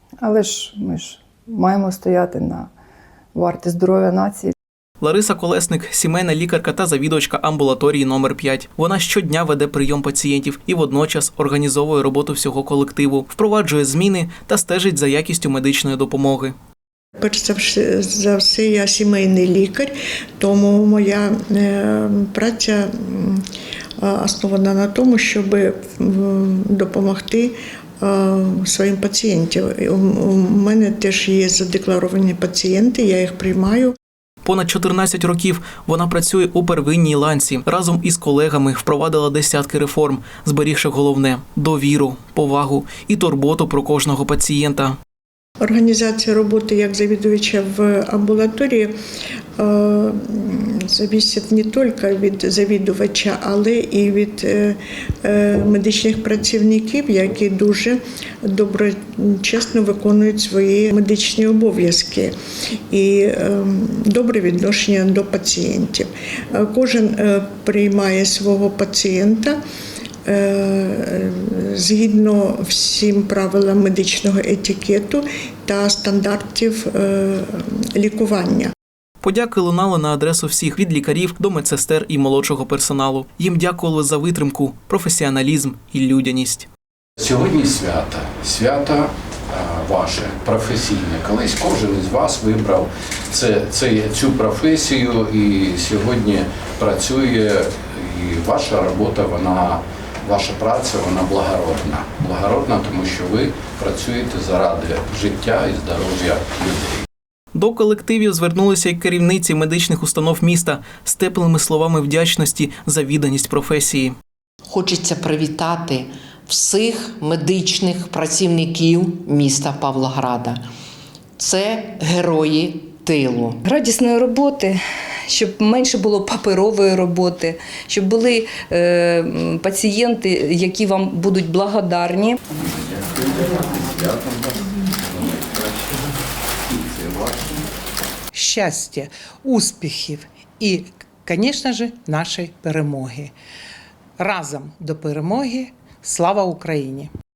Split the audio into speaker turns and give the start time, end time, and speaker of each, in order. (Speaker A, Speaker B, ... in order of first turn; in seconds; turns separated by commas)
Speaker A: 0.2-2.7, Speaker A: 3.3-4.5, Speaker B: 5.0-16.6, Speaker C: 17.2-23.4, Speaker C: 24.0-33.9, Speaker B: 34.4-45.0, Speaker C: 45.6-48.9, Speaker C: 49.6-62.3, Speaker C: 62.9-69.6, Speaker C: 70.3-78.7, Speaker B: 79.2-86.7, Speaker D: 87.3-92.8, Speaker D: 93.4-107.0, Speaker B: 107.5-114.2, Speaker E: 114.7-120.6, Speaker E: 121.4-123.6, Speaker F: 123.7-132.3, Speaker D: 132.8-135.6, Speaker D: 137.1-137.5, Speaker G: 138.3-143.3, Speaker G: 144.2-147.1